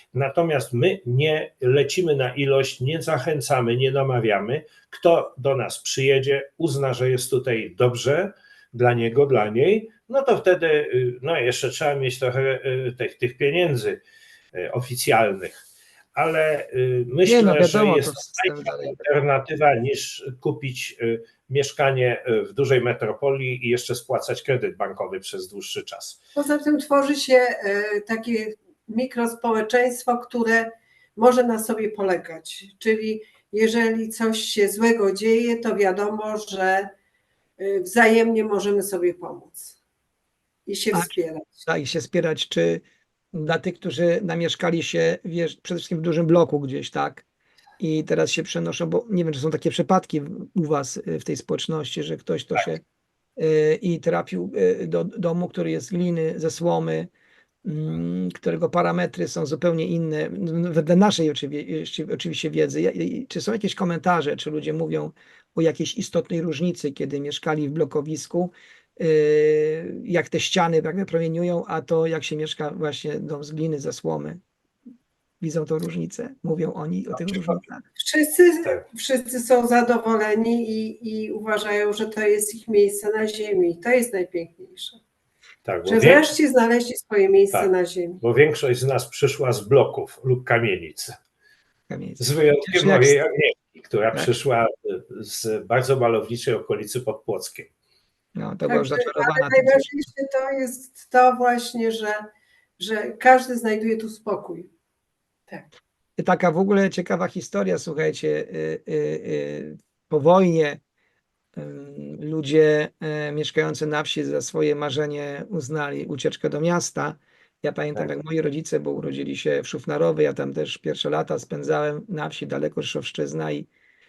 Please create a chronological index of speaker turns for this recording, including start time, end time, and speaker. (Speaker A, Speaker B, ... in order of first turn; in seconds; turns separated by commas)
Speaker A: 0.1-14.0, Speaker A: 14.6-15.6, Speaker A: 16.1-26.2, Speaker B: 17.2-19.0, Speaker C: 26.4-36.9, Speaker C: 37.6-39.8, Speaker C: 40.7-41.6, Speaker B: 41.6-47.2, Speaker B: 47.8-52.8, Speaker B: 53.4-57.1, Speaker B: 57.6-74.4, Speaker B: 75.4-77.8, Speaker A: 77.1-77.6, Speaker C: 78.0-85.0, Speaker A: 85.7-86.2, Speaker C: 85.8-88.2, Speaker A: 87.5-91.1, Speaker B: 91.9-93.2, Speaker A: 92.2-97.7, Speaker B: 98.4-99.9, Speaker C: 98.7-102.2, Speaker C: 102.8-104.7, Speaker B: 106.2-110.8, Speaker B: 111.6-123.7